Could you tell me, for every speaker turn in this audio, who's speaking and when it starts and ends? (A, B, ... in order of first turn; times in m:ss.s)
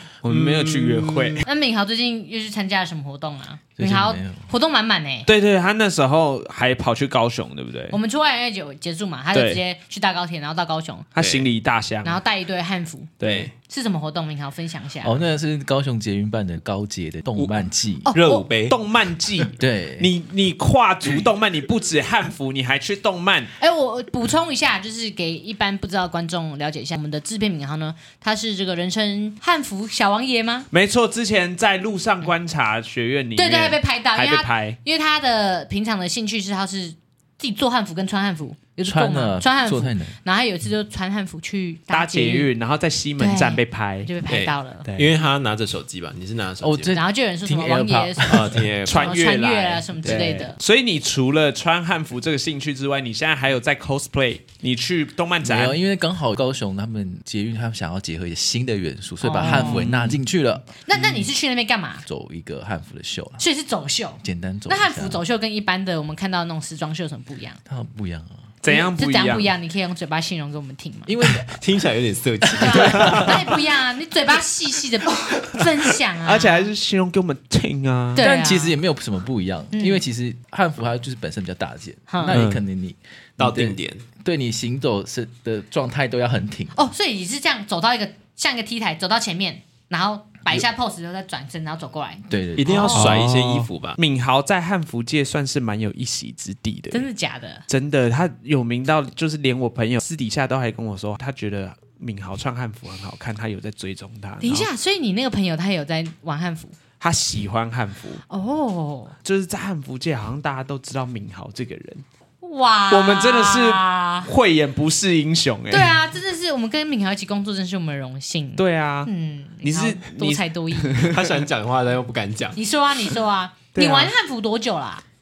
0:00.2-0:01.4 A
0:00.2-0:01.4 B
0:01.4-0:05.3 C
0:03.8-0:04.4 D
0:05.3-0:08.0 A
0:07.9-0:11.1 C
0:09.3-0:09.6 A
0:11.1-0:12.2 A
0:11.2-0:11.5 B
0:12.0-0:15.2 C
0:13.2-0:13.5 A
0:13.2-0:13.5 B
0:15.0-0:18.1 D
0:17.4-0:17.6 B
0:18.0-0:18.4 C
0:18.1-0:18.8 B
0:18.7-0:23.5 A
0:19.6-0:20.1 D
0:23.6-0:30.7 C
0:30.7-0:34.8 A
0:33.4-0:42.5 C
0:38.8-0:40.2 D
0:41.9-0:44.1 A
0:43.2-0:44.9 C
0:44.3-0:47.0 B
0:44.8-0:45.1 A
0:46.6-0:48.7 D
0:46.9-0:50.6 C
0:48.2-0:49.2 B
0:48.8-0:55.8 A
0:50.0-0:50.3 B
0:55.4-1:01.2 D
0:59.2-0:59.9 C
0:59.4-1:00.2 A
1:00.8-1:02.0 C
1:02.0-1:03.4 D
1:03.4-1:07.6 C
1:04.2-1:05.2 D
1:07.6-1:08.5 D
1:08.6-1:09.5 A
1:08.6-1:11.1 C
1:11.1-1:11.6 D
1:11.4-1:13.5 B
1:12.6-1:16.7 C
1:12.6-1:13.3 D
1:16.2-1:18.2 A
1:18.2-1:18.7 C
1:18.2-1:26.8 D
1:19.7-1:20.0 C
1:22.1-1:22.4 C
1:22.3-1:22.6 A
1:23.4-1:24.0 B
1:26.7-1:33.1 C
1:32.3-1:33.2 D
1:32.6-1:34.0 B
1:32.9-1:37.0 A
1:36.9-1:37.6 C
1:37.7-1:44.7 A
1:44.4-1:46.7 C
1:47.0-1:48.2 A
1:48.3-1:49.2 C
1:49.2-1:52.0 A
1:52.4-1:54.3 C
1:52.9-1:55.9 A
1:55.7-2:01.1 C
1:58.6-1:59.1 A
1:59.6-2:01.4 A
2:01.0-2:02.6 B
2:02.6-2:05.0 C
2:03.7-2:04.1 A